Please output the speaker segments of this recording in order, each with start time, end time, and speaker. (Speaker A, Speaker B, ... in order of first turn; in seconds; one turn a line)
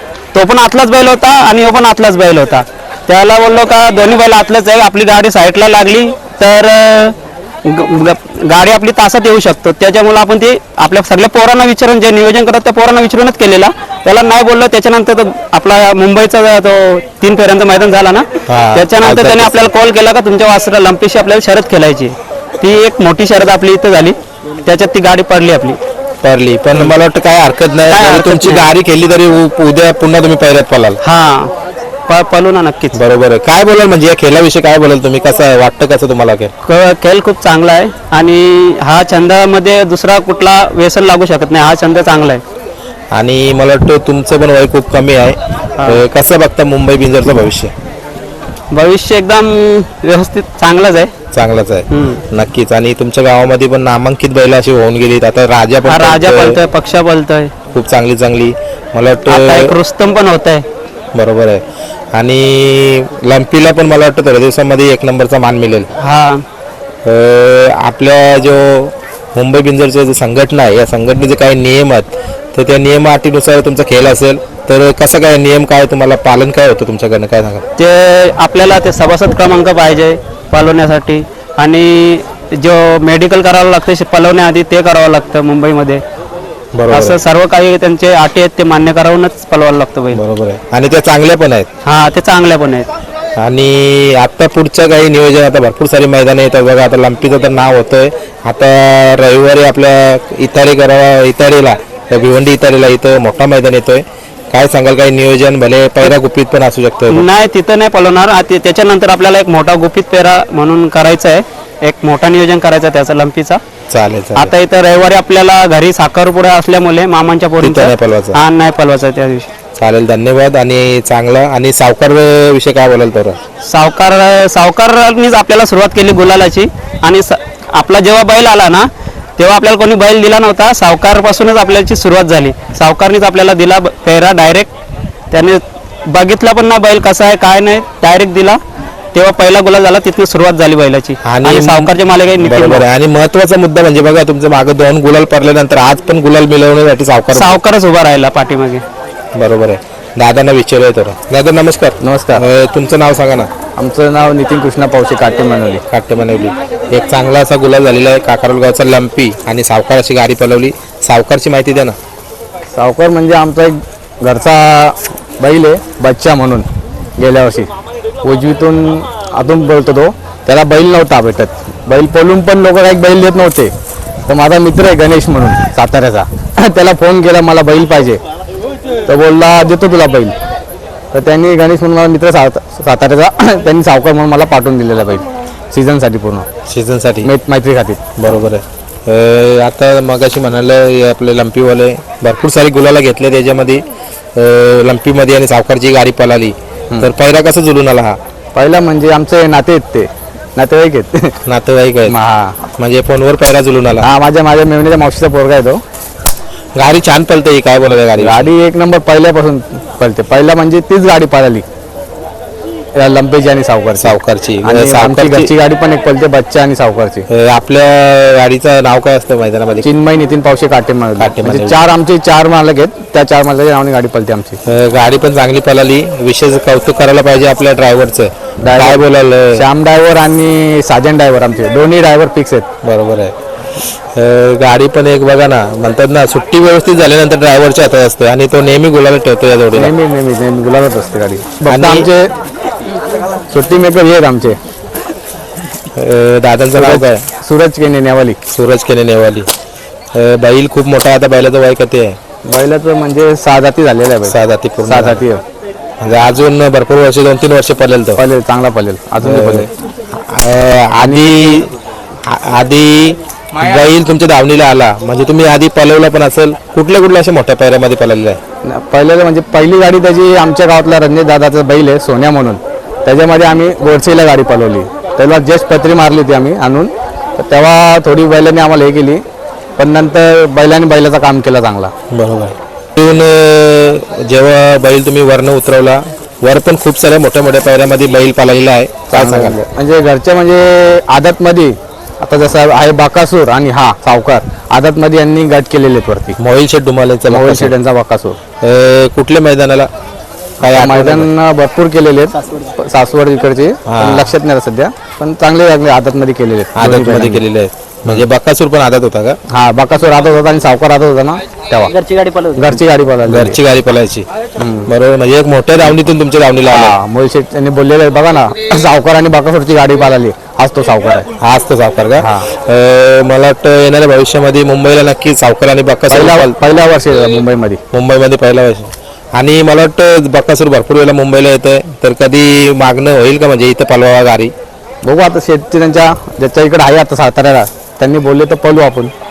Speaker A: 0.3-25.8
Speaker B: 18.5-19.7
Speaker B: 26.2-31.0
Speaker A: 27.9-28.7
Speaker A: 31.0-31.5
Speaker A: 32.1-33.0
Speaker B: 32.9-36.5
Speaker A: 36.7-42.4
Speaker B: 43.1-47.7
Speaker A: 45.8-46.0
Speaker A: 48.7-51.1
Speaker B: 51.3-56.6
Speaker A: 51.9-52.2
Speaker A: 55.9-57.5
Speaker B: 57.7-59.7
Speaker A: 59.3-60.6
Speaker B: 61.1-61.6
Speaker B: 62.1-65.9
Speaker A: 66.0-66.4
Speaker B: 67.0-77.6
Speaker A: 77.8-86.0
Speaker B: 86.7-87.2
Speaker A: 86.9-90.2
Speaker B: 90.1-91.7
Speaker A: 91.8-92.9
Speaker B: 93.4-107.3
Speaker A: 107.1-113.6
Speaker B: 113.9-114.5
Speaker A: 114.4-119.5
Speaker B: 117.6-118.4
Speaker B: 119.8-123.4
Speaker A: 123.7-128.9
Speaker A: 129.4-134.7
Speaker A: 135.3-138.6
Speaker A: 139.1-142.9
Speaker B: 141.2-147.6
Speaker A: 147.3-148.8
Speaker B: 149.3-153.5
Speaker C: 152.0-152.4
Speaker C: 153.8-155.8
Speaker B: 155.9-162.0
Speaker C: 162.7-166.7
Speaker C: 167.2-167.7
Speaker C: 168.2-173.7
Speaker C: 174.3-178.2
Speaker C: 179.1-180.3
Speaker C: 181.1-186.5
Speaker B: 186.7-187.3
Speaker C: 187.2-188.0
Speaker B: 188.2-193.8
Speaker B: 194.4-198.2
Speaker C: 198.6-201.4
Speaker B: 201.5-202.2
Speaker C: 202.1-202.6
Speaker B: 202.8-204.1
Speaker C: 204.0-205.8
Speaker B: 206.8-208.5
Speaker C: 208.2-211.7
Speaker C: 213.0-217.3
Speaker B: 214.0-215.5
Speaker B: 217.3-219.9
Speaker C: 219.8-224.6
Speaker B: 221.2-221.8
Speaker B: 224.7-229.6
Speaker C: 228.6-232.7
Speaker B: 232.8-233.3
Speaker B: 234.2-239.9
Speaker C: 239.8-242.3
Speaker B: 241.7-242.1
Speaker C: 243.5-244.6
Speaker B: 246.0-247.2
Speaker C: 246.8-248.4
Speaker B: 248.5-249.5
Speaker B: 250.2-252.2
Speaker C: 252.5-255.4
Speaker B: 254.3-255.2
Speaker B: 256.0-258.2
Speaker C: 258.2-259.7
Speaker B: 259.2-261.7
Speaker C: 261.0-261.6
Speaker B: 262.2-268.4
Speaker C: 268.7-279.2
Speaker C: 279.8-281.9
Speaker B: 282.1-289.6
Speaker C: 289.1-296.4
Speaker B: 296.4-297.7
Speaker C: 297.3-298.4
Speaker B: 298.6-299.9
Speaker B: 300.6-301.3
Speaker C: 300.7-307.4
Speaker B: 303.9-304.3
Speaker B: 306.8-309.4
Speaker C: 309.5-313.6
Speaker B: 313.3-314.3
Speaker C: 314.6-314.9
Speaker B: 314.9-317.0
Speaker C: 316.7-321.3
Speaker B: 321.4-326.6
Speaker C: 322.2-322.5
Speaker C: 326.1-327.8
Speaker B: 327.9-334.5
Speaker C: 335.0-339.1